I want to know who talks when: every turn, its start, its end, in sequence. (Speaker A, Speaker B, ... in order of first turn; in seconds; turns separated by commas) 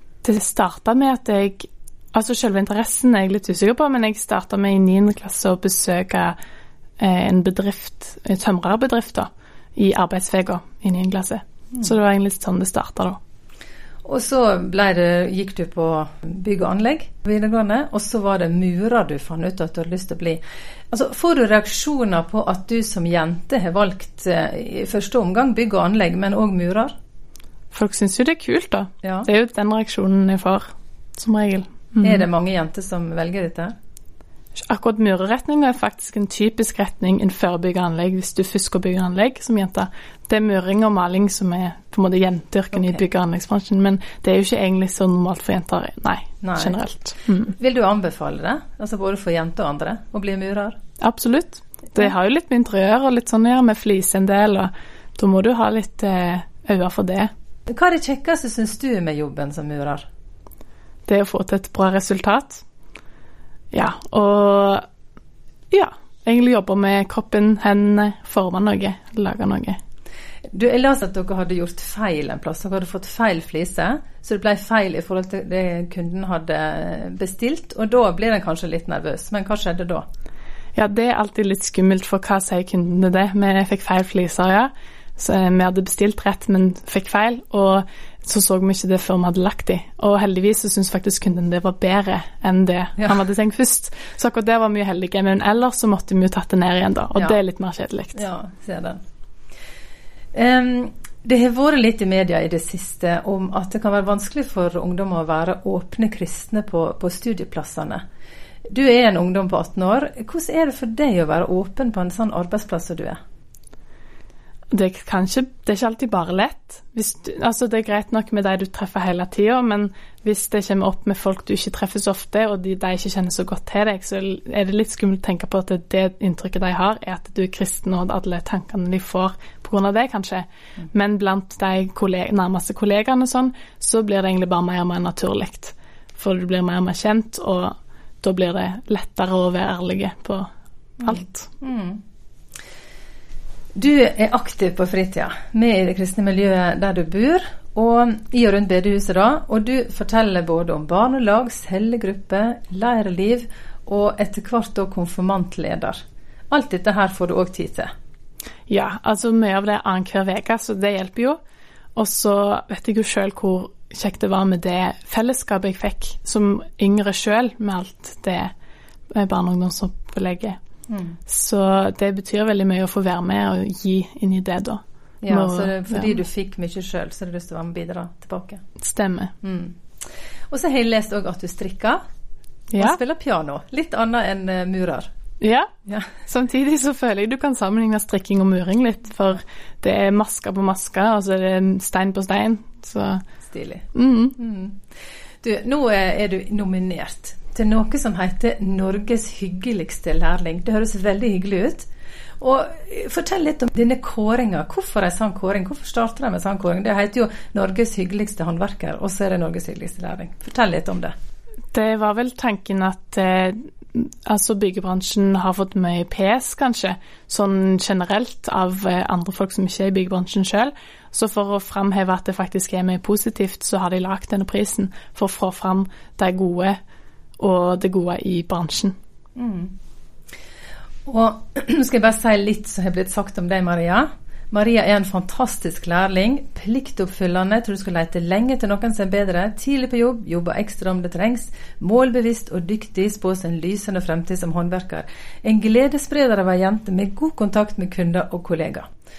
Speaker A: 0.2-6.3, Speaker A: 7.0-13.2, Speaker B: 14.0-26.9, Speaker A: 27.7-32.3, Speaker B: 29.0-29.3, Speaker B: 32.0-33.7, Speaker A: 34.6-47.5, Speaker B: 42.8-43.0, Speaker B: 46.4-46.8, Speaker B: 47.4-50.8, Speaker A: 51.0-57.3, Speaker B: 57.7-60.0, Speaker A: 61.1-62.6, Speaker A: 63.7-64.8, Speaker A: 65.7-69.8, Speaker B: 70.5-80.0, Speaker A: 80.8-98.2, Speaker B: 98.2-99.0, Speaker B: 100.3-108.0, Speaker B: 108.7-113.2, Speaker A: 114.7-140.5, Speaker A: 141.0-141.5, Speaker B: 141.0-142.0, Speaker B: 143.8-156.0, Speaker B: 156.5-157.9, Speaker A: 158.7-161.4, Speaker A: 162.0-168.5, Speaker A: 169.1-170.6, Speaker B: 170.9-171.2, Speaker A: 171.3-176.2, Speaker B: 175.2-178.6, Speaker A: 178.8-179.3, Speaker B: 179.4-179.8, Speaker B: 180.5-182.0, Speaker A: 182.7-183.0, Speaker B: 182.8-185.1, Speaker A: 185.4-185.7, Speaker B: 185.9-186.1, Speaker A: 186.3-193.2, Speaker B: 193.5-194.8, Speaker A: 193.9-194.4, Speaker B: 195.4-201.9, Speaker B: 202.4-211.1, Speaker A: 211.7-226.8, Speaker A: 227.4-228.9, Speaker B: 229.4-229.7, Speaker B: 231.1-248.9